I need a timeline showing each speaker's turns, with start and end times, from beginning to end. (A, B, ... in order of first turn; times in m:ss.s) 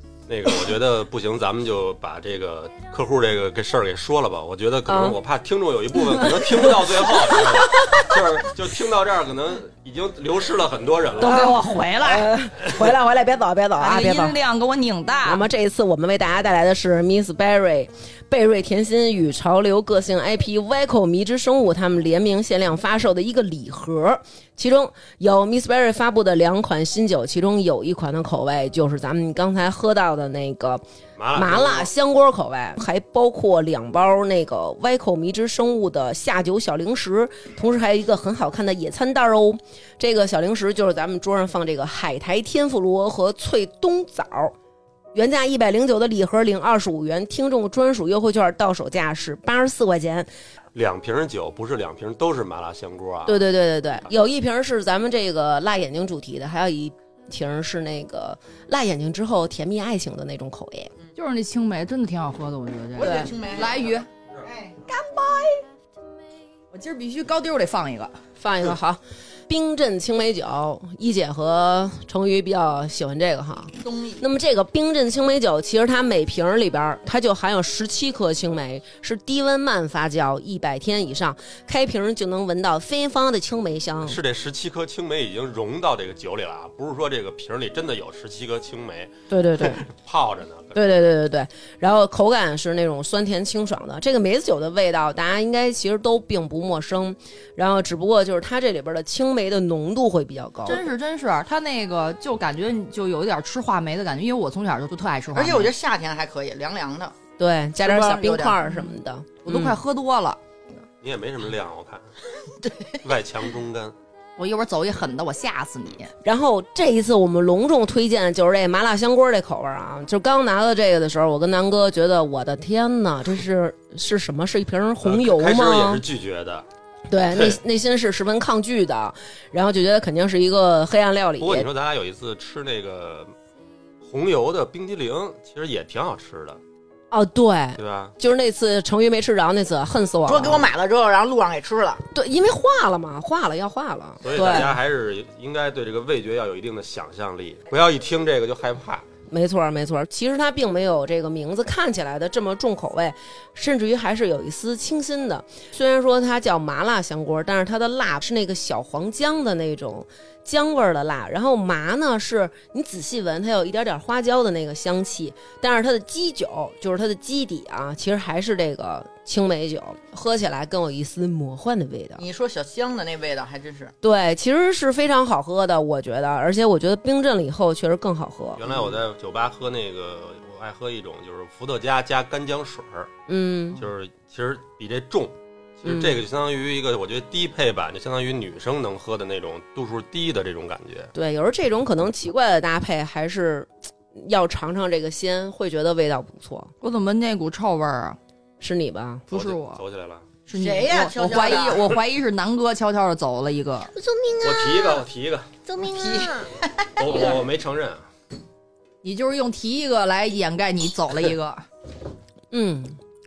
0:00.3-0:11.5 A
0:04.9-0:05.2 B
0:05.9-0:08.0 B
0:11.2-0:14.4 B
0:11.2-0:12.3 C
0:13.8-0:15.4 C
0:15.2-0:30.8 B
0:31.2-0:31.9 A
0:31.3-0:44.5 B
0:45.1-0:50.3 B
0:50.7-0:53.4 A
0:53.2-1:00.9 B
1:01.2-1:04.0 C
1:03.0-1:04.8 D
1:03.0-1:03.3 B
1:04.9-1:05.6 C
1:06.7-1:08.2 C
1:08.4-1:24.2 B
1:13.8-1:14.2 D
1:24.0-1:30.9 A
1:29.3-1:29.8 B
1:30.7-1:40.8 B
1:40.6-1:45.7 C
1:45.3-1:47.2 D
1:47.4-1:49.8 B
1:47.8-1:48.6 D
1:49.4-1:50.4 C
1:51.0-1:52.1 A
1:52.6-1:53.0 D
1:53.0-1:53.9 A
1:54.4-1:56.1 C
1:56.2-2:06.0 B
2:05.0-2:06.6 A
2:07.1-2:11.7 B
2:11.4-2:13.3 A
2:14.0-2:16.6 A
2:17.1-2:20.7 B
2:17.8-2:18.1 A
2:20.2-2:22.0 D
2:22.1-2:24.8 B
2:24.2-2:29.0 A
2:29.3-2:52.2 B
2:52.2-2:53.9 D
2:54.0-2:58.6 B
2:58.6-3:03.1 A
3:03.3-3:03.8 B
3:03.8-3:11.1 A
3:05.8-3:06.2 B
3:11.1-3:16.7 B
3:16.8-3:18.2 C
3:18.6-3:19.2 B
3:19.3-3:19.8 C
3:19.3-3:20.2 A
3:20.5-3:23.9 C
3:20.5-3:22.0 D
3:23.9-3:25.0 E
3:24.4-3:25.5 A
3:25.6-3:26.5 E
3:25.9-3:27.3 D
3:27.0-3:28.1 A
3:29.0-3:31.6 C
3:32.5-3:33.0 B